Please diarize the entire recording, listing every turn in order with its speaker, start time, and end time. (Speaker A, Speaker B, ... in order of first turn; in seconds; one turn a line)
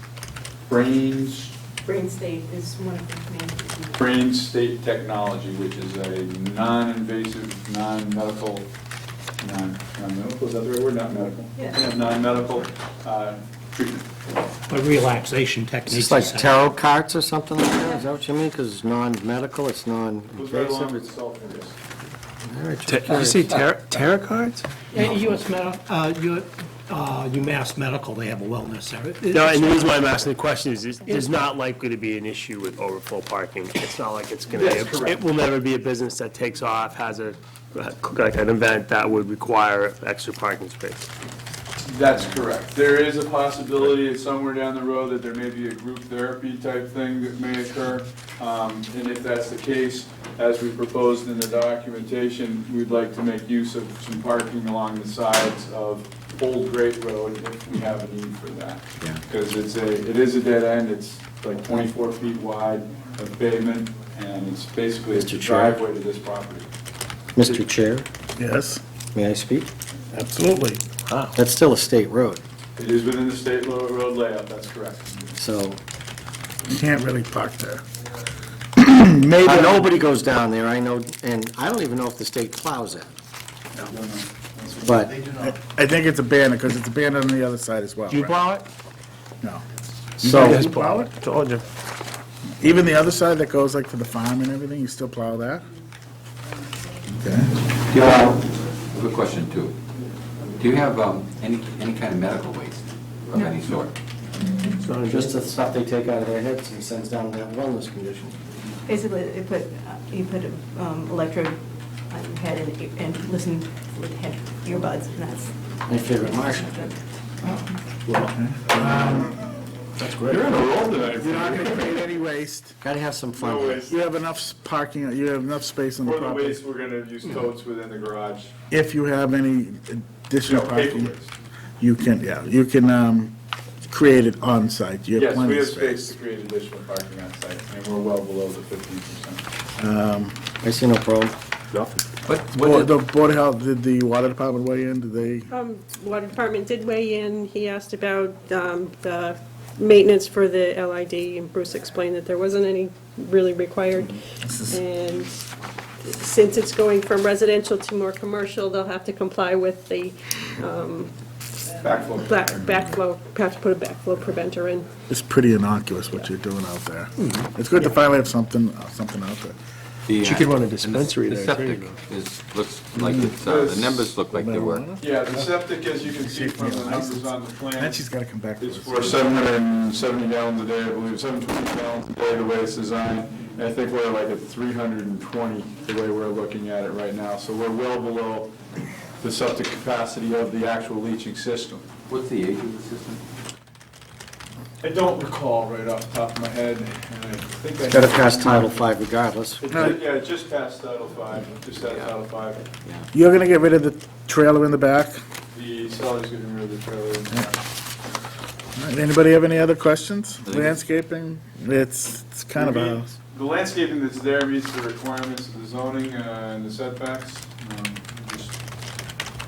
Speaker A: 0.7-1.5
Speaker B: 1.8-4.1
Speaker A: 4.0-8.7
Speaker A: 9.4-14.1
Speaker C: 14.7-16.5
Speaker D: 15.8-21.1
Speaker A: 20.3-21.8
Speaker D: 22.4-24.0
Speaker E: 22.9-24.6
Speaker C: 24.9-30.1
Speaker E: 29.2-41.1
Speaker A: 34.5-35.2
Speaker A: 41.8-66.7
Speaker D: 65.1-65.8
Speaker D: 67.3-68.1
Speaker F: 68.3-68.8
Speaker D: 69.1-69.7
Speaker F: 70.1-71.2
Speaker D: 71.3-72.4
Speaker A: 72.8-75.3
Speaker D: 75.4-75.8
Speaker F: 76.7-77.8
Speaker F: 78.8-79.9
Speaker D: 79.4-83.1
Speaker A: 83.7-85.4
Speaker D: 84.8-85.2
Speaker F: 85.3-88.4
Speaker E: 88.1-88.6
Speaker E: 90.2-91.6
Speaker F: 90.2-91.2
Speaker F: 92.6-95.7
Speaker F: 97.1-97.6
Speaker G: 97.9-99.8
Speaker G: 100.6-103.9
Speaker E: 104.8-105.4
Speaker D: 105.0-108.4
Speaker B: 108.9-117.4
Speaker D: 115.9-116.8
Speaker F: 118.1-119.4
Speaker A: 120.0-121.9
Speaker F: 120.0-120.5
Speaker F: 121.2-122.8
Speaker D: 122.8-123.8
Speaker A: 123.3-123.9
Speaker F: 123.8-126.6
Speaker A: 126.0-128.5
Speaker F: 128.7-131.1
Speaker A: 130.4-131.3
Speaker F: 131.8-133.3
Speaker F: 133.9-136.1
Speaker A: 135.2-139.4
Speaker F: 139.8-140.4
Speaker D: 140.6-141.3
Speaker E: 141.7-142.0
Speaker G: 142.2-142.9
Speaker F: 142.5-145.5
Speaker H: 145.5-155.4
Speaker F: 154.4-154.8
Speaker H: 156.1-161.1
Speaker A: 161.8-162.6
Speaker H: 162.1-164.9
Speaker F: 165.1-169.6
Speaker E: 167.2-167.5
Speaker G: 170.1-174.9
Speaker E: 170.2-171.9
Speaker F: 172.9-173.3
Speaker A: 173.4-174.1
Speaker F: 174.3-175.5
Speaker A: 175.0-178.0
Speaker F: 176.2-179.3
Speaker A: 178.6-188.6
Speaker A: 189.2-191.9
Speaker G: 192.1-193.2
Speaker A: 194.8-198.7
Speaker D: 197.8-199.8
Speaker A: 199.6-202.7
Speaker F: 199.7-200.0
Speaker F: 203.1-205.2
Speaker A: 205.5-207.6
Speaker F: 208.7-213.1
Speaker G: 210.4-210.8
Speaker A: 212.5-218.5